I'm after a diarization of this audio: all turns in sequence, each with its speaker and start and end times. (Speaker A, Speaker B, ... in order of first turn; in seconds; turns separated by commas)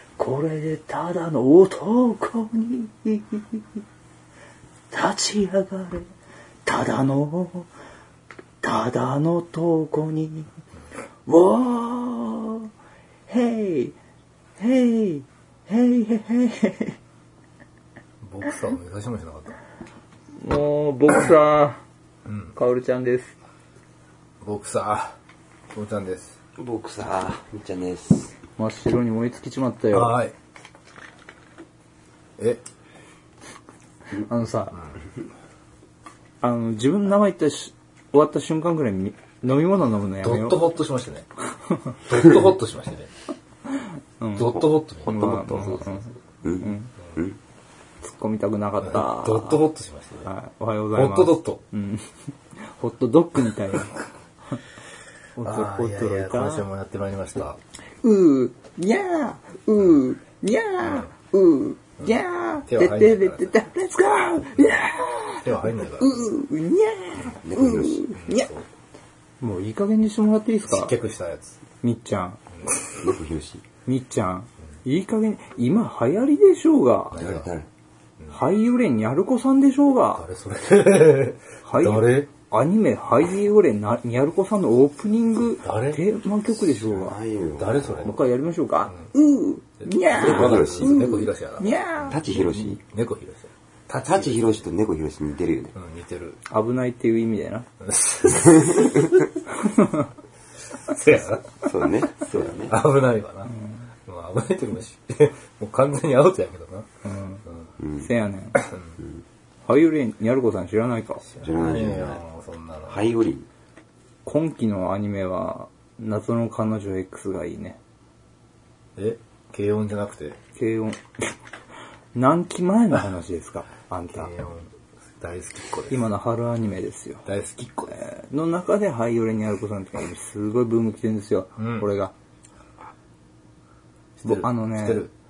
Speaker A: 0.2-3.8, Speaker A: 4.9-6.1, Speaker A: 6.7-7.7, Speaker A: 8.6-10.5, Speaker A: 11.3-12.7, Speaker A: 13.3-14.0, Speaker A: 14.6-17.0, Speaker B: 18.2-19.6, Speaker A: 20.4-21.8, Speaker B: 22.3-22.6, Speaker A: 22.6-23.3, Speaker B: 24.4-25.1, Speaker B: 25.7-26.4, Speaker C: 26.6-28.3, Speaker A: 28.6-30.2, Speaker B: 29.9-30.3, Speaker B: 32.4-32.6, Speaker A: 34.1-34.8, Speaker A: 36.4-40.8, Speaker B: 40.2-41.3, Speaker A: 41.6-42.0, Speaker B: 42.0-43.1, Speaker A: 43.7-46.9, Speaker B: 44.4-45.7, Speaker C: 45.0-45.9, Speaker C: 46.4-47.4, Speaker A: 48.0-49.6, Speaker B: 48.8-50.3, Speaker A: 50.2-54.6, Speaker B: 50.9-51.6, Speaker A: 55.4-56.7, Speaker B: 55.4-57.6, Speaker A: 58.0-68.5, Speaker B: 60.8-61.1, Speaker B: 62.0-63.6, Speaker B: 64.6-66.2, Speaker C: 67.4-68.1, Speaker B: 68.1-68.7, Speaker A: 69.4-71.0, Speaker B: 70.6-71.6, Speaker A: 71.8-72.4, Speaker C: 73.0-73.7, Speaker A: 73.8-77.2, Speaker B: 77.1-77.5, Speaker C: 77.2-77.7, Speaker A: 78.3-80.2, Speaker B: 80.1-82.3, Speaker A: 81.6-87.2, Speaker B: 85.6-86.0, Speaker C: 86.9-88.1, Speaker B: 87.6-88.2, Speaker A: 88.0-92.3, Speaker B: 89.8-94.7, Speaker C: 90.1-91.0, Speaker C: 92.1-92.8, Speaker C: 93.9-95.7, Speaker B: 95.7-96.4, Speaker A: 96.5-97.7, Speaker B: 97.8-99.2, Speaker A: 99.5-100.1, Speaker B: 100.9-101.6, Speaker C: 101.5-102.8, Speaker B: 102.4-103.5, Speaker B: 104.1-106.9, Speaker A: 107.0-108.7, Speaker C: 107.8-108.1, Speaker B: 108.6-108.9, Speaker A: 109.7-111.3, Speaker B: 111.3-113.1, Speaker C: 111.4-112.2, Speaker C: 112.9-113.5, Speaker A: 114.2-117.8, Speaker B: 119.0-120.4, Speaker A: 120.6-121.0, Speaker A: 122.2-124.3, Speaker B: 124.2-126.1, Speaker A: 125.9-127.2, Speaker B: 127.3-128.0, Speaker A: 127.9-132.1, Speaker B: 131.6-131.9, Speaker B: 134.2-135.1, Speaker A: 134.2-135.1